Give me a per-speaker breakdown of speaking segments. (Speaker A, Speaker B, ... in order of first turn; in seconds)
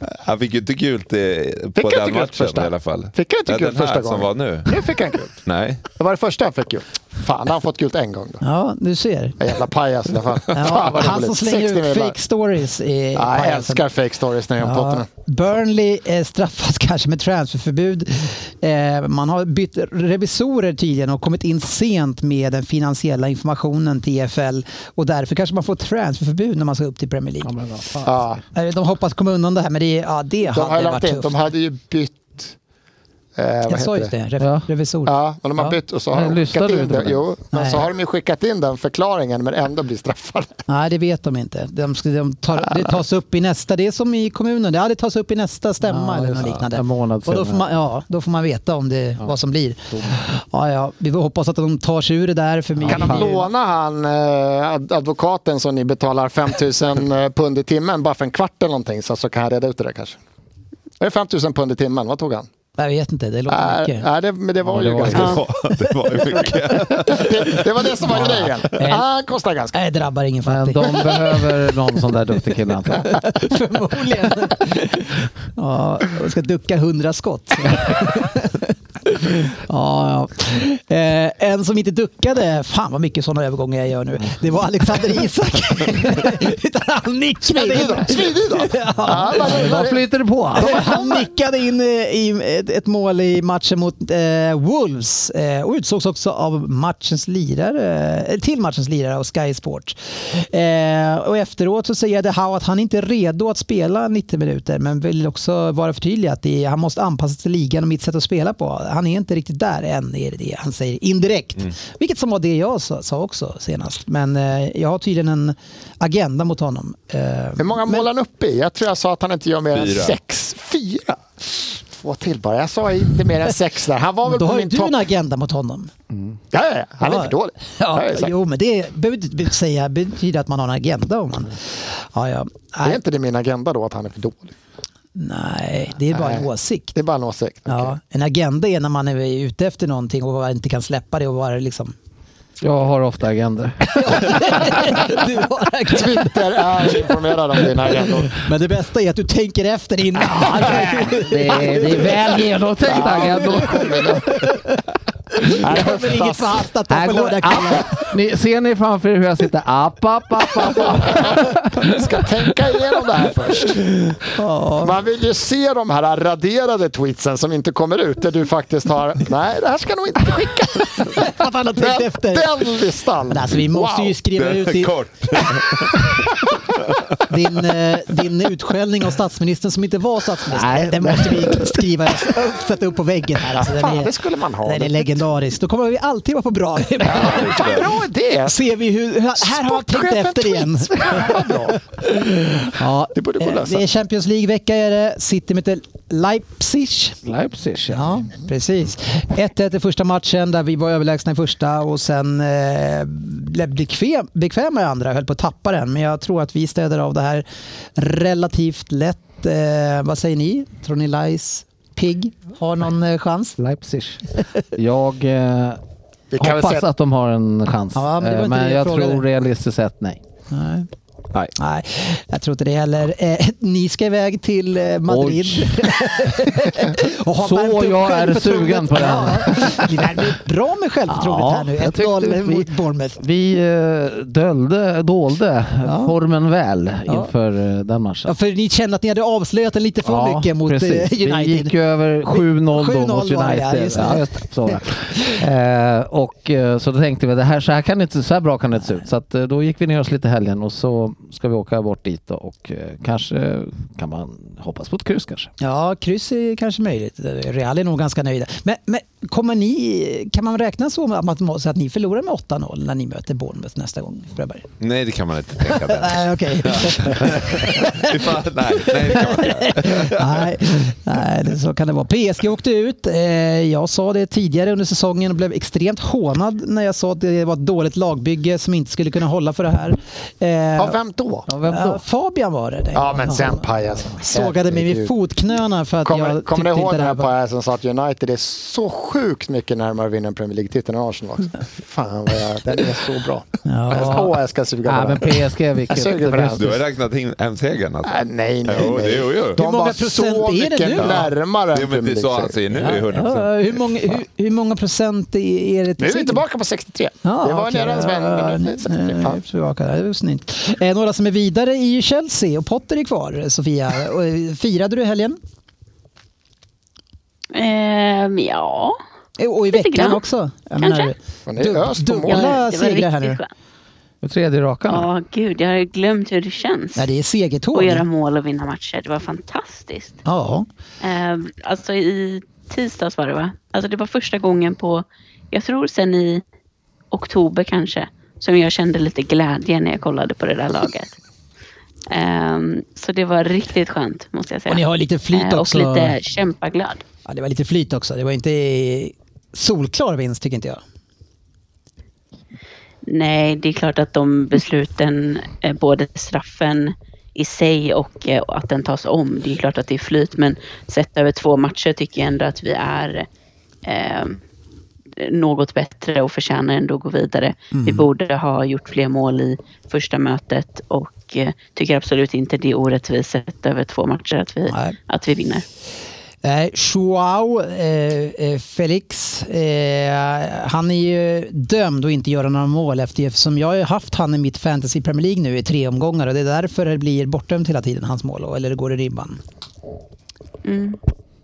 Speaker A: 0.2-4.7, 5.4-5.8, 64.9-68.4, 119.7-120.2, 174.3-176.2, 176.9-177.2, 187.1-187.9, 264.8-270.5, 296.6-299.6, 301.0-303.8
Speaker B: 1.8-5.4, 5.9-8.4, 9.4-12.2, 13.2-15.1, 28.0-28.4, 30.5-32.5, 33.4-34.1, 35.1-40.5, 52.9-60.2, 61.0-62.5, 63.5-65.4, 67.1-69.7, 87.5-91.2, 117.6-125.0, 126.5-128.3, 132.8-134.5, 136.1-137.9, 145.9-148.4, 150.6-150.9, 152.8-154.4, 155.5-156.6, 161.1-164.0, 164.8-174.2, 183.4-185.2, 187.0-188.6, 189.4-191.8, 193.1-193.8, 216.3-216.8, 280.8-281.5, 282.9-285.1, 286.0-296.8, 298.0-302.9, 306.0-309.4, 321.4-322.6
Speaker C: 8.4-9.4, 10.5-13.8, 14.6-27.5, 28.5-31.4, 33.7-35.8, 37.5-37.9, 40.7-53.5, 62.8-64.1, 65.7-66.5, 68.1-69.0, 69.7-71.4, 72.9-89.7, 90.5-118.1, 124.2-125.9, 127.0-133.0, 135.1-137.0, 137.7-141.9, 143.8-147.7, 148.3-154.8, 155.3-158.1, 164.3-164.9, 171.0-172.7, 173.3-175.4, 177.3-187.7, 188.4-197.2, 197.9-213.6, 217.9-219.2, 220.5-220.9, 221.5-233.2, 235.8-236.1, 238.2-241.7, 242.2-245.4, 255.6-264.7, 265.6-281.0, 281.7-287.3, 293.6-294.3, 299.6-301.3, 302.7-306.4, 307.2-315.4, 319.4-323.4, 326.9-328.0, 330.2-330.7, 344.7-346.1, 347.2-350.8, 367.7-368.1, 374.7-374.9, 376.4-389.4
Speaker D: 27.4-28.2, 34.4-34.7, 36.1-37.3, 45.8-47.7, 49.9-50.1, 52.8-53.3, 64.6-65.4, 70.5-73.2, 89.3-90.9, 142.6-144.7, 150.3-154.1, 156.9-162.1, 180.5-181.8, 197.2-198.2, 213.6-215.8, 216.4-220.2, 225.1-225.9, 227.4-230.3, 231.1-238.3, 240.0-255.5, 281.5-282.0, 294.8-296.8, 324.2-325.1
Speaker E: 317.5-319.0, 319.7-320.2, 320.8-321.1, 322.3-323.5, 324.9-327.0, 327.7-330.2, 331.0-336.4, 337.1-341.1, 342.1-347.0, 353.1-363.3, 363.8-364.4, 365.2-375.6, 390.6-391.0